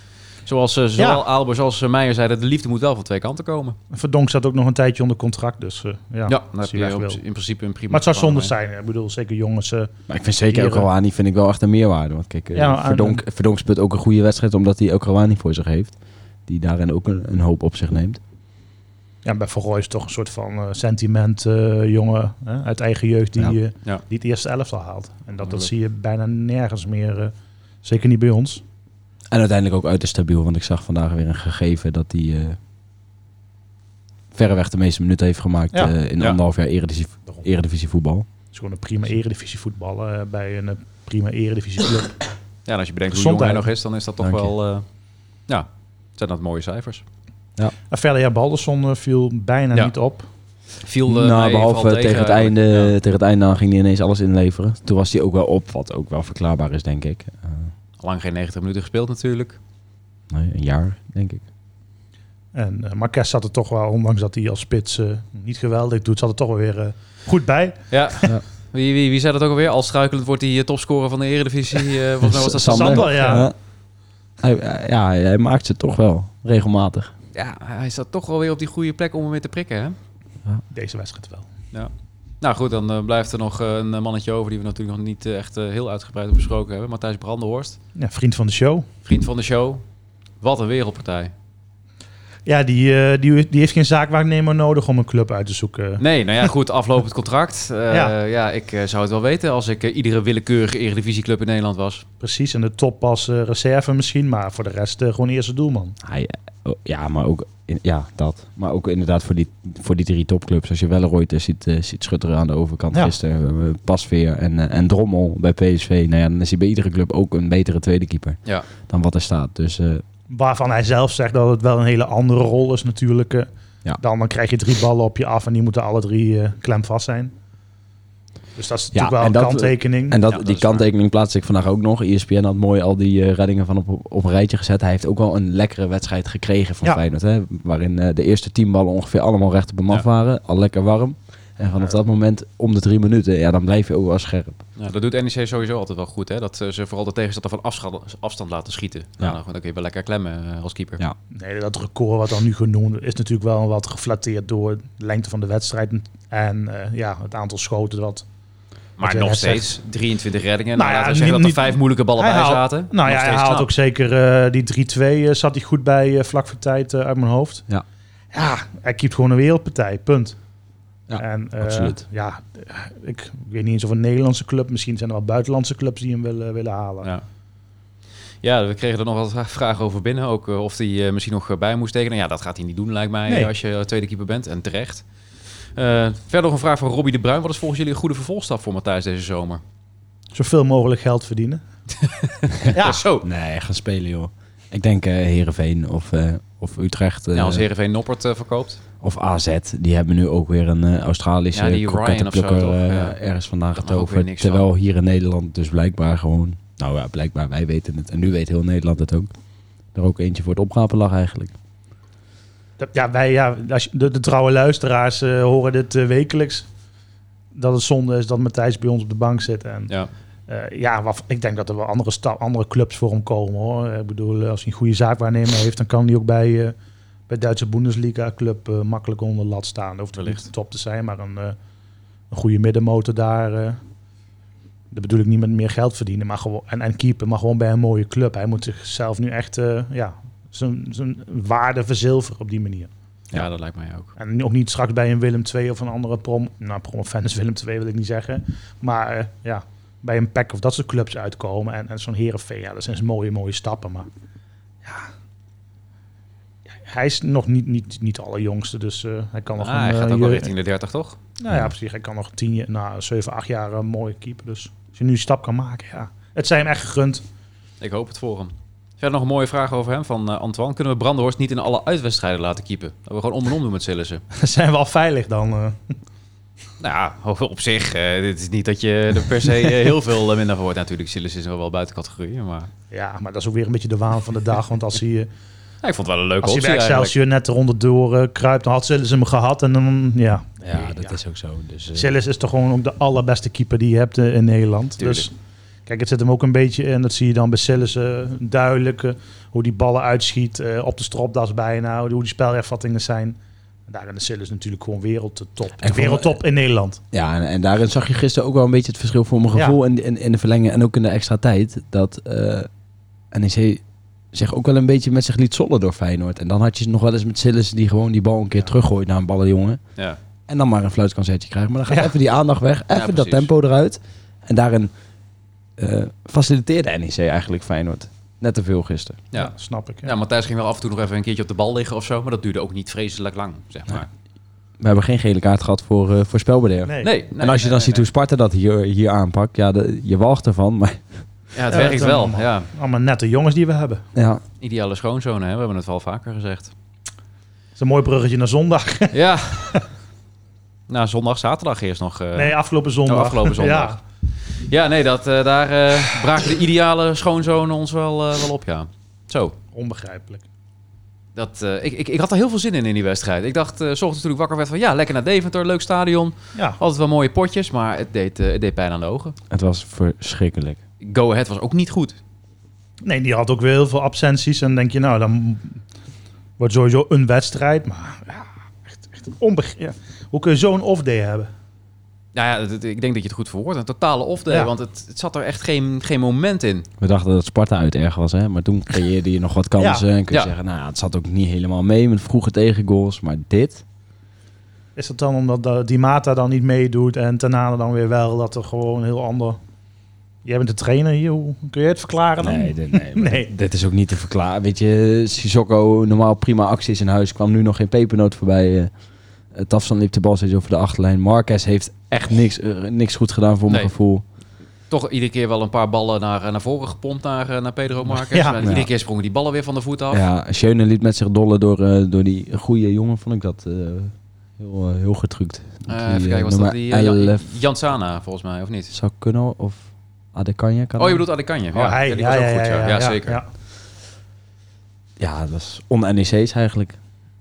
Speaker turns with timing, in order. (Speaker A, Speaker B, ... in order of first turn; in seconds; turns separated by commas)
Speaker A: 0.5-3.8, Speaker B: 1.0-1.2, Speaker B: 3.9-7.2, Speaker A: 6.3-8.5, Speaker B: 7.9-9.9, Speaker C: 10.1-15.9, Speaker B: 10.5-10.9, Speaker B: 12.5-13.2, Speaker C: 16.5-18.2, Speaker B: 19.2-28.6, Speaker C: 29.3-32.6, Speaker C: 34.3-38.3, Speaker B: 38.5-42.2, Speaker A: 42.7-44.8, Speaker B: 43.1-43.7, Speaker C: 44.2-44.5, Speaker A: 45.5-47.0, Speaker B: 47.9-50.3, Speaker A: 50.8-52.9, Speaker C: 51.1-57.7, Speaker A: 58.0-59.6, Speaker C: 60.3-61.4, Speaker B: 62.5-67.8, Speaker A: 67.9-73.4, Speaker C: 72.2-73.5, Speaker B: 72.6-73.5, Speaker C: 74.4-77.1, Speaker A: 77.3-80.0, Speaker B: 80.7-81.5, Speaker A: 81.7-87.8, Speaker B: 88.0-88.9, Speaker A: 89.0-89.8, Speaker A: 90.4-91.3, Speaker B: 92.5-96.0, Speaker A: 96.0-102.0, Speaker B: 102.2-106.0, Speaker C: 106.0-120.0, Speaker B: 120.3-127.3, Speaker B: 128.6-130.2, Speaker C: 128.9-144.6, Speaker A: 130.3-130.9, Speaker A: 144.8-151.0, Speaker B: 151.3-158.2, Speaker A: 159.0-163.7, Speaker B: 159.0-159.8, Speaker B: 160.8-167.6, Speaker B: 168.3-170.4, Speaker C: 171.1-172.0, Speaker B: 171.2-177.1, Speaker A: 178.4-185.0, Speaker A: 185.8-189.6, Speaker B: 190.3-191.6, Speaker A: 192.0-193.3, Speaker B: 192.7-193.0, Speaker C: 193.2-197.7, Speaker A: 197.3-198.8, Speaker C: 199.0-209.3, Speaker A: 201.5-203.2, Speaker A: 203.8-204.7, Speaker C: 209.9-211.6, Speaker B: 212.8-216.7, Speaker B: 217.6-219.9, Speaker B: 220.5-226.8, Speaker B: 227.3-231.6, Speaker B: 232.3-233.8, Speaker B: 234.9-242.9, Speaker A: 243.3-244.1, Speaker B: 244.2-254.1, Speaker B: 256.8-260.5, Speaker A: 259.6-261.2, Speaker B: 261.4-267.2, Speaker A: 267.8-274.2, Speaker B: 274.3-275.8, Speaker A: 276.8-282.7, Speaker B: 282.9-285.3, Speaker A: 285.8-287.1, Speaker B: 286.4-291.1, Speaker C: 290.6-292.1, Speaker B: 291.9-295.3, Speaker A: 295.0-295.3, Speaker B: 295.9-303.4, Speaker B: 303.9-307.0, Speaker C: 305.8-306.4, Speaker C: 307.1-312.7, Speaker C: 313.3-319.8, Speaker C: 320.5-324.9, Speaker A: 322.9-323.5, Speaker C: 325.8-329.2, Speaker B: 329.4-330.1, Speaker A: 330.1-334.1, Speaker C: 334.8-341.3, Speaker A: 337.0-338.1, Speaker A: 341.5-342.7, Speaker B: 341.7-344.1, Speaker C: 344.1-344.4, Speaker A: 344.6-346.7, Speaker B: 347.8-349.8, Speaker A: 349.1-349.8, Speaker A: 350.9-359.6, Speaker B: 352.4-354.0, Speaker B: 359.7-360.4, Speaker A: 361.4-369.4, Speaker C: 369.5-370.8, Speaker A: 371.0-372.2, Speaker B: 373.0-375.8, Speaker B: 376.6-381.5, Speaker A: 382.3-386.9, Speaker C: 387.0-393.8, Speaker B: 389.8-390.1, Speaker B: 395.0-399.6, Speaker B: 400.4-403.5, Speaker C: 402.4-408.9, Speaker C: 409.5-414.2, Speaker A: 414.9-420.2, Speaker B: 418.3-418.6, Speaker C: 418.6-418.9, Speaker C: 420.1-427.4, Speaker A: 425.9-428.9, Speaker C: 428.9-431.2, Speaker A: 431.0-433.4, Speaker B: 431.7-433.5, Speaker C: 435.2-437.0